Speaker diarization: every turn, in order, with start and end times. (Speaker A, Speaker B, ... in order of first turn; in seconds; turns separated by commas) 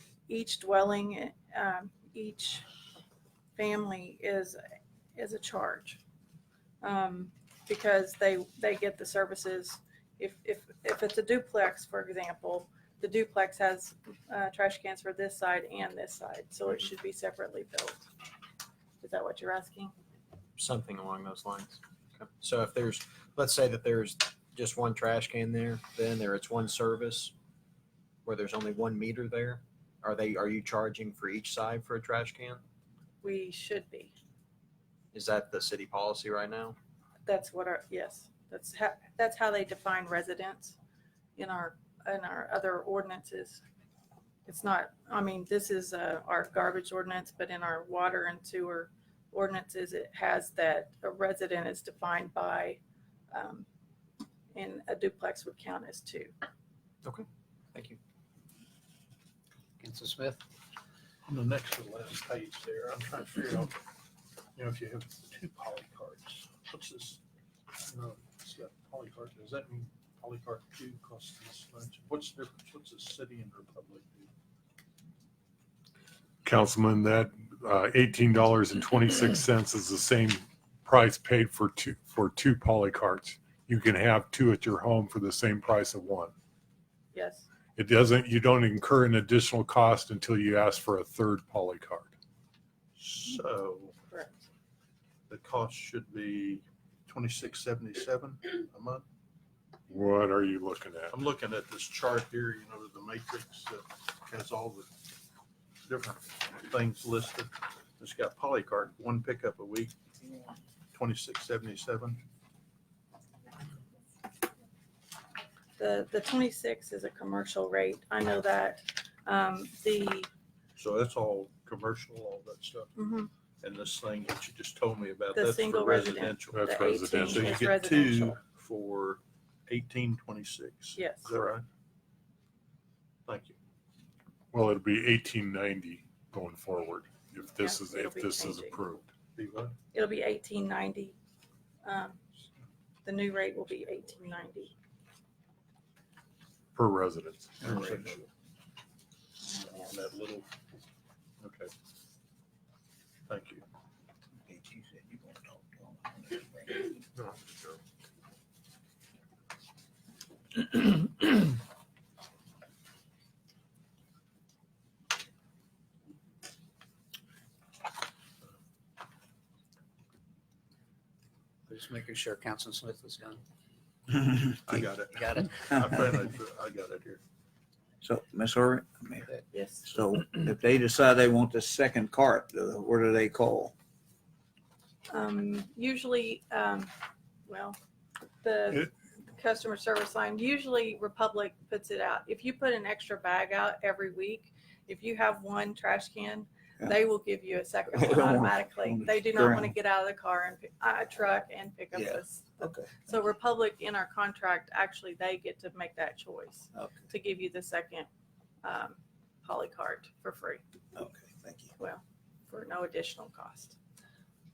Speaker A: 0.3-2.6, Speaker A: 3.6-4.6, Speaker A: 5.1-6.0, Speaker A: 6.8-18.1, Speaker A: 19.0-19.9, Speaker B: 20.6-21.8, Speaker B: 22.4-27.3, Speaker B: 28.2-32.6, Speaker A: 33.2-34.1, Speaker B: 35.1-36.8, Speaker A: 37.2-40.8, Speaker A: 41.4-43.6, Speaker A: 44.5-52.8, Speaker A: 53.3-53.7, Speaker A: 54.5-56.3, Speaker B: 57.0-58.0, Speaker C: 59.8-60.4, Speaker D: 61.2-63.8, Speaker D: 64.5-67.2, Speaker D: 67.8-74.3, Speaker E: 76.4-86.3, Speaker A: 87.1-87.5, Speaker E: 87.8-92.1, Speaker D: 93.0-94.0, Speaker A: 94.1-94.5, Speaker D: 95.3-99.0, Speaker E: 99.9-101.2, Speaker D: 101.1-104.9, Speaker D: 105.8-109.9, Speaker D: 110.9-112.2, Speaker A: 115.8-120.3, Speaker D: 120.8-122.9, Speaker A: 123.0-123.3, Speaker D: 123.6-131.6, Speaker A: 125.3-128.4, Speaker E: 126.5-127.6, Speaker A: 130.9-131.4, Speaker D: 133.2-133.6, Speaker E: 134.5-139.1, Speaker A: 137.6-138.8, Speaker D: 139.3-139.7, Speaker A: 139.9-141.2, Speaker A: 141.8-142.2, Speaker A: 143.0-144.7, Speaker E: 146.7-147.9, Speaker F: 147.6-148.0, Speaker D: 147.6-148.3, Speaker A: 149.4-149.9, Speaker D: 149.7-150.5, Speaker D: 151.4-151.7, Speaker D: 153.3-153.6, Speaker F: 154.5-157.0, Speaker E: 157.2-157.8, Speaker C: 171.7-173.4, Speaker D: 174.6-177.2, Speaker C: 175.1-175.9, Speaker F: 178.0-179.3, Speaker A: 179.5-179.8, Speaker F: 179.8-183.7, Speaker A: 185.1-186.9, Speaker A: 187.5-187.8, Speaker A: 188.4-208.1, Speaker F: 197.9-199.7, Speaker F: 201.9-203.1, Speaker A: 208.6-210.6, Speaker F: 210.9-211.7, Speaker A: 211.8-213.8